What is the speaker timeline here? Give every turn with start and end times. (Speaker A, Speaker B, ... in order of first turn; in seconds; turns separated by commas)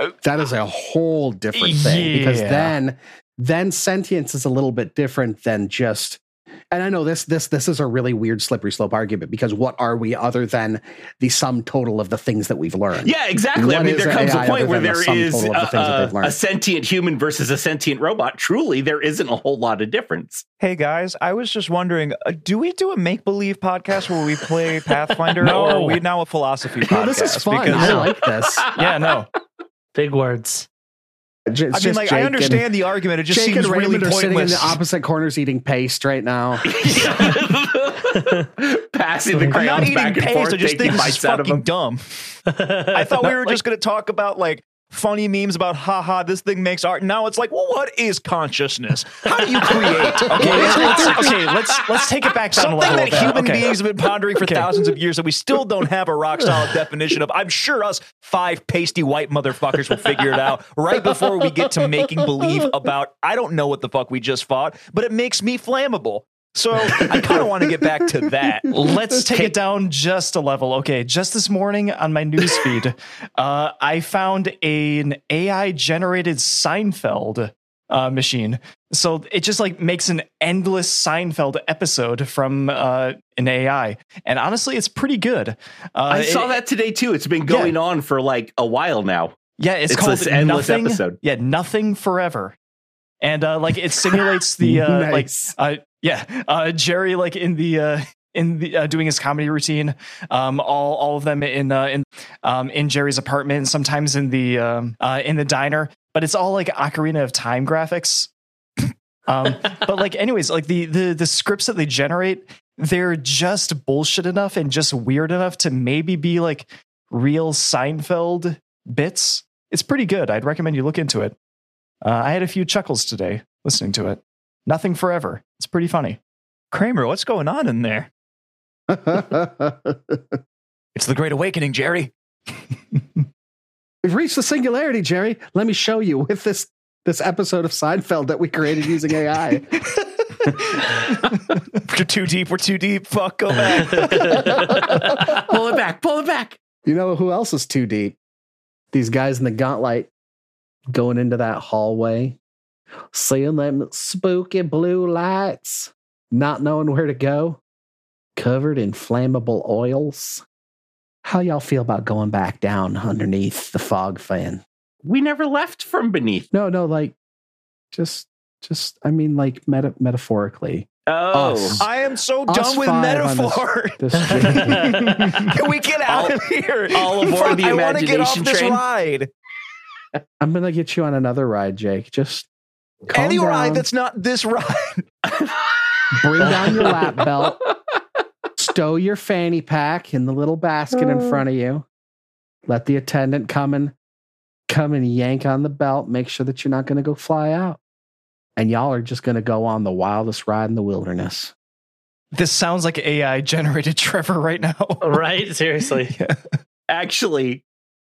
Speaker A: 0.2-16.4, Speaker B: 1.6-2.8, Speaker C: 13.0-20.4, Speaker D: 20.6-28.1, Speaker B: 25.4-26.0, Speaker A: 26.8-28.7, Speaker C: 28.4-29.1, Speaker B: 28.8-29.3, Speaker E: 29.9-30.7, Speaker A: 31.5-32.7, Speaker D: 31.7-34.8, Speaker A: 33.3-36.7, Speaker C: 36.7-41.7, Speaker E: 36.9-38.5, Speaker E: 39.3-39.9, Speaker D: 39.6-42.3, Speaker E: 42.5-42.9, Speaker D: 42.9-51.5, Speaker B: 43.3-43.6, Speaker B: 50.1-53.7, Speaker C: 50.7-51.1, Speaker D: 52.5-68.7, Speaker B: 54.4-54.7, Speaker B: 68.7-86.6, Speaker C: 86.1-89.4, Speaker B: 87.5-87.8, Speaker B: 89.6-92.6, Speaker C: 89.9-91.2, Speaker B: 93.2-121.4, Speaker A: 94.6-95.5, Speaker B: 122.0-126.2, Speaker D: 126.7-128.1, Speaker A: 128.9-130.2, Speaker D: 130.9-132.1, Speaker A: 134.0-139.9, Speaker D: 141.9-144.5, Speaker A: 144.4-145.3, Speaker C: 144.8-146.6, Speaker A: 146.8-148.2, Speaker A: 148.9-150.1, Speaker A: 150.9-152.4, Speaker A: 153.1-157.6, Speaker A: 158.4-160.4, Speaker A: 161.2-164.6, Speaker C: 165.0-166.5, Speaker A: 166.5-167.2, Speaker A: 167.9-171.9, Speaker C: 171.1-171.8, Speaker D: 171.8-179.3, Speaker A: 172.5-175.2, Speaker C: 176.1-176.4, Speaker C: 176.9-178.8, Speaker A: 180.4-182.5, Speaker A: 183.1-183.9, Speaker D: 183.1-185.1, Speaker A: 186.1-187.6, Speaker C: 186.6-187.0, Speaker A: 188.6-191.8, Speaker A: 192.7-193.9, Speaker A: 194.7-197.8, Speaker A: 198.6-201.5, Speaker B: 202.3-205.2, Speaker E: 205.0-206.2, Speaker B: 206.1-206.4, Speaker C: 206.9-207.6